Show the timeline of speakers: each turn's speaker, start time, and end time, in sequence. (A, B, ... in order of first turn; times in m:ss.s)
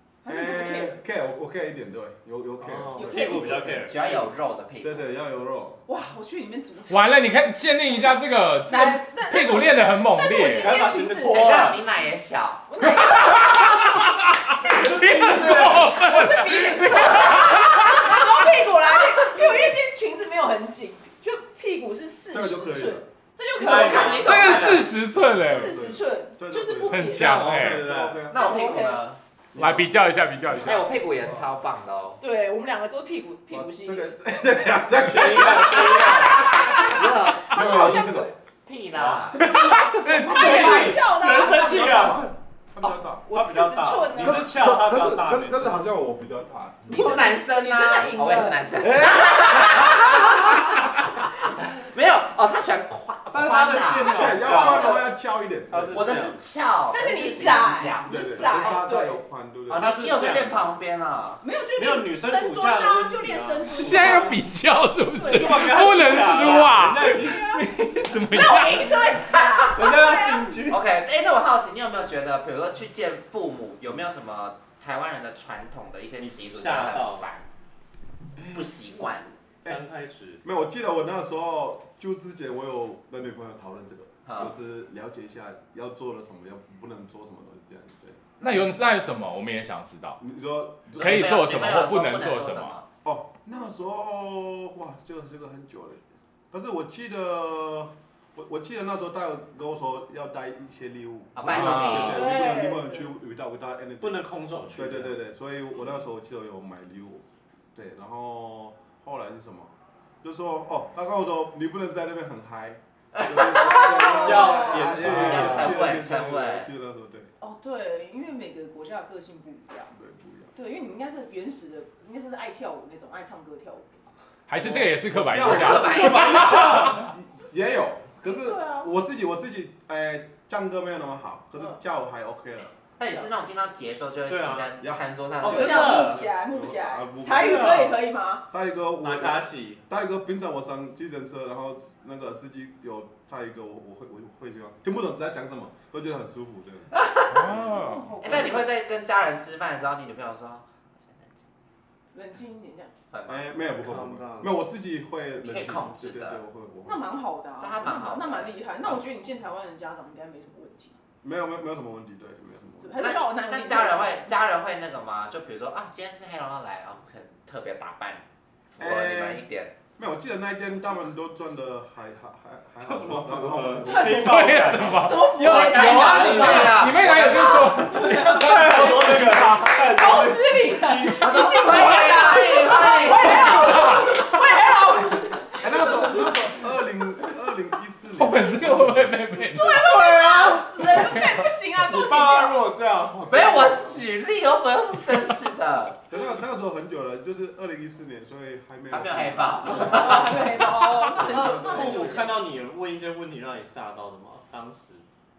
0:00.2-0:01.0 A
0:00.3-0:04.2 B
0:02.6-0:04.0 C
0:03.0-0:03.8 A
0:03.8-0:05.1 D
0:04.8-0:05.8 B
0:05.9-0:11.8 A
0:06.9-0:10.8 E
0:10.4-0:11.8 C
0:11.3-0:12.7 D
0:12.7-0:14.0 A
0:12.8-0:18.4 E
0:14.7-0:24.8 A
0:14.8-0:15.9 C
0:22.3-0:23.0 B
0:23.6-0:24.9 D
0:23.6-0:24.9 C
0:24.2-0:25.8 E
0:25.1-0:28.8 B
0:25.4-0:27.5 A
0:26.9-0:27.9 E
0:27.1-0:28.2 C
0:28.3-0:29.2 D
0:28.3-0:29.0 A
0:29.5-0:31.5 B
0:29.5-0:30.9 E
0:30.6-0:32.2 D
0:32.2-0:34.1 A
0:33.5-0:38.3 B
0:35.0-0:36.6 C
0:35.6-0:37.0 A
0:35.6-0:39.6 D
0:37.6-0:38.2 A
0:38.9-0:39.4 C
0:39.3-0:43.3 B
0:39.4-0:41.0 E
0:39.6-0:42.2 A
0:40.4-0:42.3 C
0:43.2-0:44.5 A
0:43.3-0:45.8 C
0:44.2-0:46.9 B
0:46.9-0:48.7 A
0:46.9-0:55.0 D
0:48.8-0:50.8 B
0:53.3-0:55.0 C
0:54.1-0:55.0 A
0:54.1-0:56.2 B
0:55.7-0:56.4 C
0:55.9-0:58.8 D
0:56.9-0:59.2 A
0:58.0-0:59.9 B
0:59.7-1:01.4 D
0:59.7-1:00.7 C
1:01.4-1:04.4 A
1:01.8-1:04.4 C
1:03.6-1:09.1 E
1:05.1-1:10.7 A
1:05.2-1:07.5 C
1:09.2-1:09.9 D
1:09.7-1:10.8 C
1:10.7-1:17.5 D
1:16.2-1:17.2 C
1:18.3-1:18.9 B
1:18.5-1:19.4 D
1:19.6-1:20.4 C
1:20.4-1:28.8 B
1:24.2-1:24.5 D
1:28.4-1:30.2 E
1:30.2-1:31.3 B
1:30.9-1:32.8 E
1:31.0-1:32.8 D
1:33.0-1:57.3 B
1:41.3-1:42.4 D
1:41.4-1:42.3 E
1:42.0-1:43.1 A
1:44.0-1:45.2 C
1:53.1-1:56.7 D
1:53.5-1:54.8 A
1:54.0-1:55.9 C
1:57.4-1:59.9 A
1:59.9-2:00.5 B
2:00.5-2:04.0 A
2:04.5-2:07.0 E
2:04.5-2:12.7 B
2:05.4-2:06.8 D
2:05.7-2:07.1 C
2:08.2-2:08.9 A
2:13.0-2:16.2 D
2:14.3-2:14.8 C
2:15.4-2:16.3 C
2:15.4-2:18.4 A
2:16.2-2:26.9 B
2:17.2-2:18.0 C
2:19.0-2:19.8 C
2:26.9-2:27.5 D
2:27.3-2:28.1 E
2:27.4-2:27.9 B
2:27.6-2:28.7 A
2:28.2-2:31.5 D
2:32.1-2:32.9 A
2:33.1-2:33.5 D
2:33.3-2:37.0 B
2:33.8-2:34.6 C
2:35.4-2:36.4 D
2:36.8-2:40.9 A
2:37.6-2:39.0 D
2:41.2-2:43.0 B
2:42.8-2:44.3 A
2:43.0-2:48.2 D
2:48.8-2:49.7 D
2:48.8-2:49.4 B
2:50.0-2:54.4 B
2:52.8-2:56.9 C
2:53.8-3:06.5 A
2:54.2-2:59.9 E
2:55.5-2:57.8 D
2:57.0-2:57.5 B
2:57.9-3:02.2 C
3:01.1-3:03.9 D
3:03.1-3:04.4 E
3:05.1-3:09.6 B
3:08.1-3:11.5 E
3:09.5-3:12.6 A
3:11.8-3:14.0 C
3:13.3-3:16.0 D
3:16.1-3:20.4 B
3:18.9-3:20.4 D
3:19.7-3:22.4 A
3:21.1-3:22.4 B
3:21.2-3:25.0 C